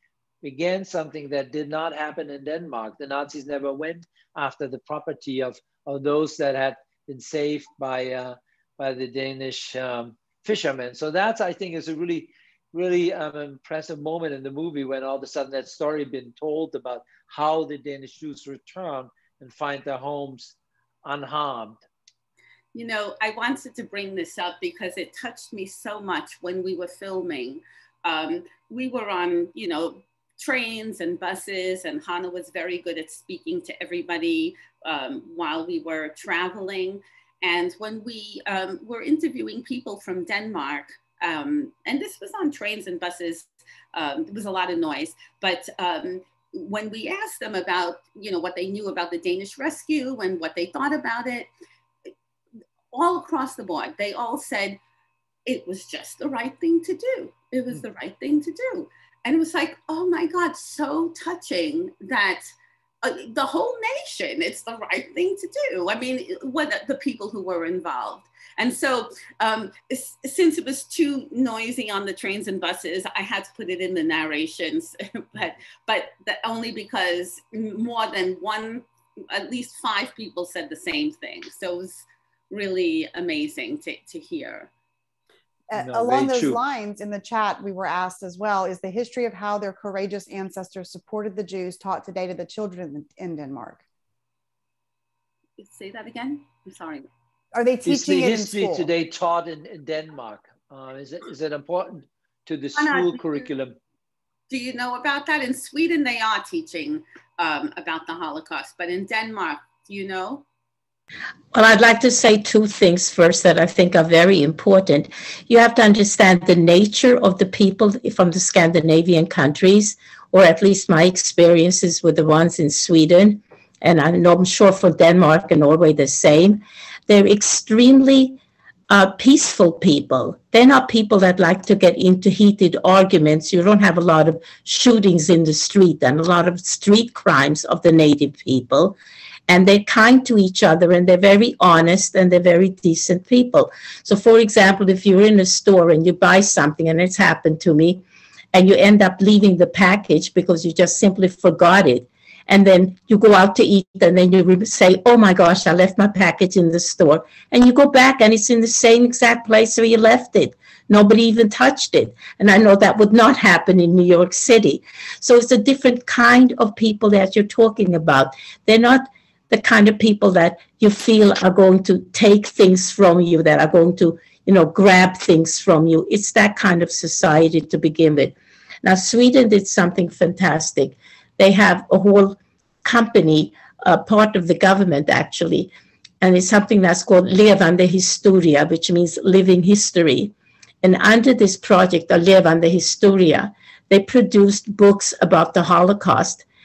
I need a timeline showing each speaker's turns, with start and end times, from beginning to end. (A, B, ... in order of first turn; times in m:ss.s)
0:00.4-0:21.8 A
0:22.8-0:51.5 B
0:52.9-0:54.8 B
0:55.5-1:02.5 B
1:03.0-1:24.7 B
1:25.7-1:33.8 C
1:25.7-1:26.6 A
1:35.6-1:37.1 B
1:37.5-1:38.9 C
1:37.8-1:43.8 A
1:42.8-1:43.5 B
1:44.5-1:50.4 B
1:51.5-2:08.4 D
2:08.9-2:19.0 D
2:19.5-3:16.4 D